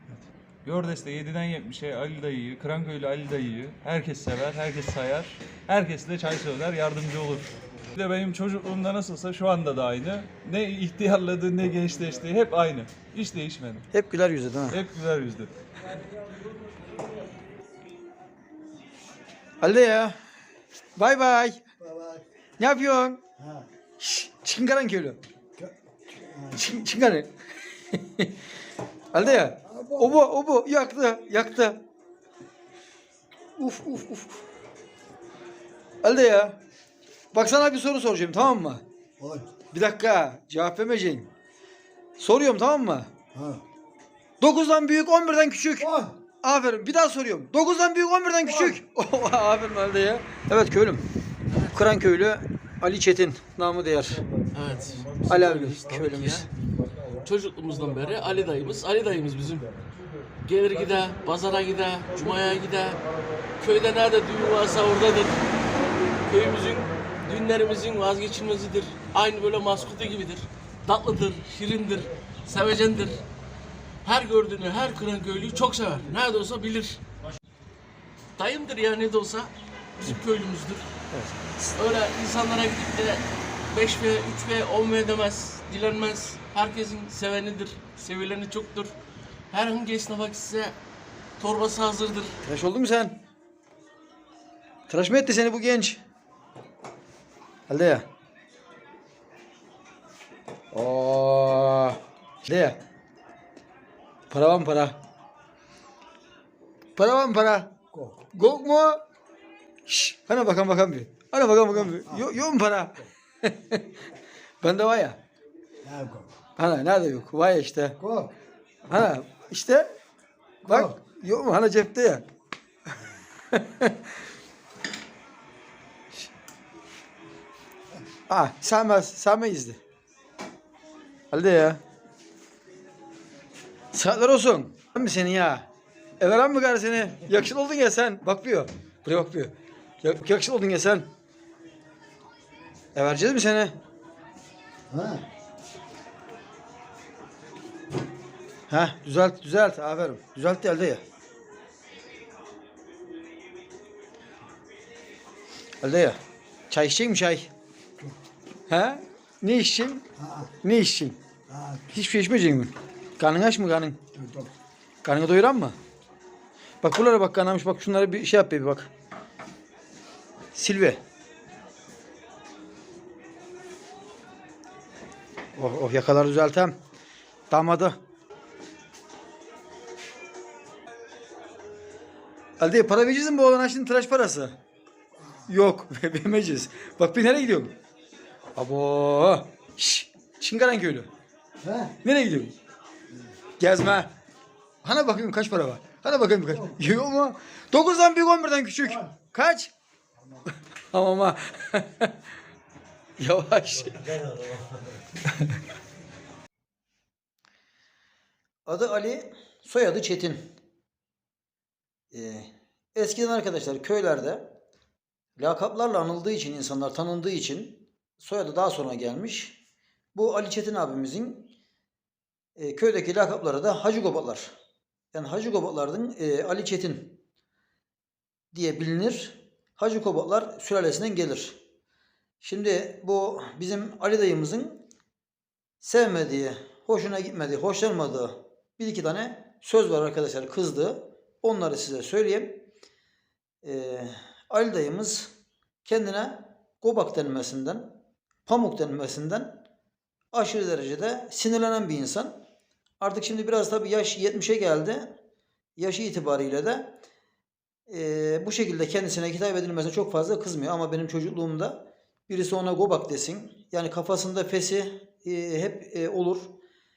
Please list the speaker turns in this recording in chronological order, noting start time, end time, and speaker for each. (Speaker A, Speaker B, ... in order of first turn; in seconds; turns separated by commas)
Speaker A: 0.6-13.8, Speaker B: 13.9-14.8, Speaker A: 14.7-15.5, Speaker B: 19.6-20.2, Speaker B: 21.0-21.6, Speaker C: 21.8-22.2, Speaker B: 22.6-23.2, Speaker B: 24.0-25.2, Speaker C: 26.2-26.5, Speaker B: 26.5-27.3, Speaker B: 27.9-28.3, Speaker B: 29.1-31.8, Speaker C: 29.7-30.1, Speaker B: 33.6-34.4, Speaker B: 36.0-36.6, Speaker B: 37.3-38.8, Speaker C: 39.2-39.5, Speaker B: 39.7-41.3, Speaker B: 42.2-43.1, Speaker C: 43.4-43.6, Speaker B: 44.4-45.9, Speaker C: 45.8-46.1, Speaker B: 46.4-51.0, Speaker B: 51.6-54.2, Speaker D: 54.5-56.5, Speaker B: 55.3-56.5, Speaker D: 57.2-59.7, Speaker D: 60.4-63.0, Speaker D: 63.6-65.4, Speaker D: 66.3-73.2, Speaker D: 74.0-77.0, Speaker D: 78.4-80.8, Speaker B: 81.1-81.7, Speaker D: 81.8-89.0, Speaker D: 89.5-90.8, Speaker D: 91.4-92.4, Speaker B: 92.4-93.2, Speaker B: 94.9-96.0, Speaker B: 97.7-98.1, Speaker B: 100.7-102.8, Speaker B: 104.3-105.0, Speaker B: 107.0-107.7, Speaker B: 108.3-109.0, Speaker B: 109.9-113.8, Speaker B: 114.6-115.2, Speaker C: 115.9-116.3, Speaker B: 116.6-118.0, Speaker C: 118.0-118.3, Speaker B: 118.9-119.9, Speaker B: 120.7-122.2, Speaker B: 123.5-124.0, Speaker B: 128.3-129.8, Speaker B: 131.3-131.8, Speaker B: 133.9-135.7, Speaker B: 136.2-141.1, Speaker B: 142.9-143.8, Speaker C: 144.9-145.2, Speaker B: 148.7-151.0, Speaker B: 155.8-156.2, Speaker B: 156.7-157.5, Speaker B: 158.7-160.0, Speaker B: 160.6-161.2, Speaker C: 161.5-161.8, Speaker B: 161.9-164.0, Speaker C: 164.2-164.5, Speaker B: 165.0-165.8, Speaker B: 166.8-168.9, Speaker B: 170.6-171.0, Speaker B: 175.6-176.8, Speaker B: 177.5-178.0, Speaker B: 182.6-184.6, Speaker B: 185.5-187.7, Speaker B: 188.6-191.1, Speaker C: 191.7-191.9, Speaker B: 192.0-192.5, Speaker B: 193.6-194.1, Speaker B: 194.8-199.7, Speaker B: 200.9-202.1, Speaker B: 203.2-204.2, Speaker B: 208.7-210.5, Speaker B: 212.1-214.5, Speaker B: 215.4-219.6, Speaker B: 220.1-221.5, Speaker B: 222.6-224.5, Speaker B: 225.1-227.2, Speaker B: 228.5-231.6, Speaker B: 232.4-234.9, Speaker B: 235.8-242.7, Speaker B: 243.6-245.3, Speaker B: 245.8-249.6, Speaker B: 250.3-252.4, Speaker B: 253.0-255.2, Speaker B: 255.8-257.0, Speaker B: 257.9-266.6